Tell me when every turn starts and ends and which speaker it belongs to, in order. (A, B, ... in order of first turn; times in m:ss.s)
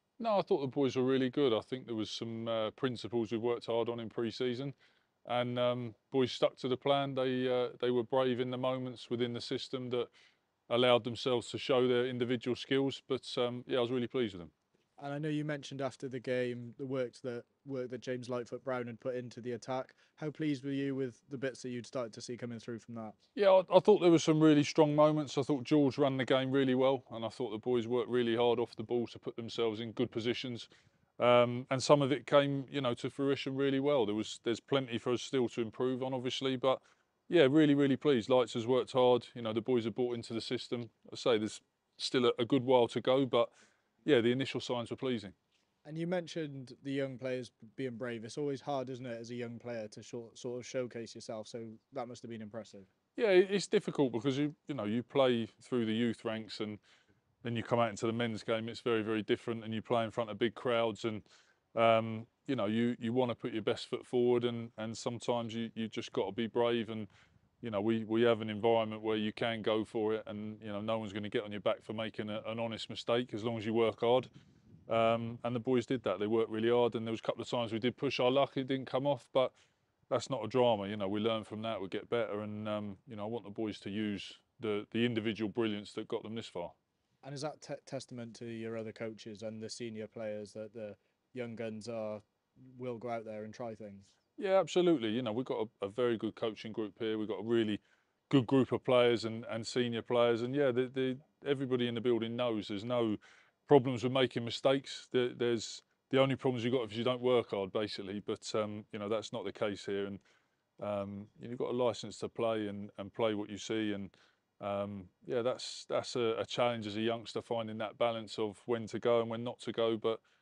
0:00.2-0:04.8 A
0:05.2-0:10.1 A
0:10.7-0:14.5 A
0:15.0-0:23.2 B
0:23.4-0:30.7 A
0:31.2-0:43.5 A
0:44.0-0:45.3 A
0:45.8-0:52.9 B
0:53.2-0:56.8 A
0:57.4-1:01.2 A
1:01.8-1:07.1 A
1:07.6-1:14.3 A
1:14.9-1:19.5 A
1:20.1-1:26.7 A
1:27.2-1:34.1 B
1:34.4-1:50.2 A
1:50.8-2:00.2 A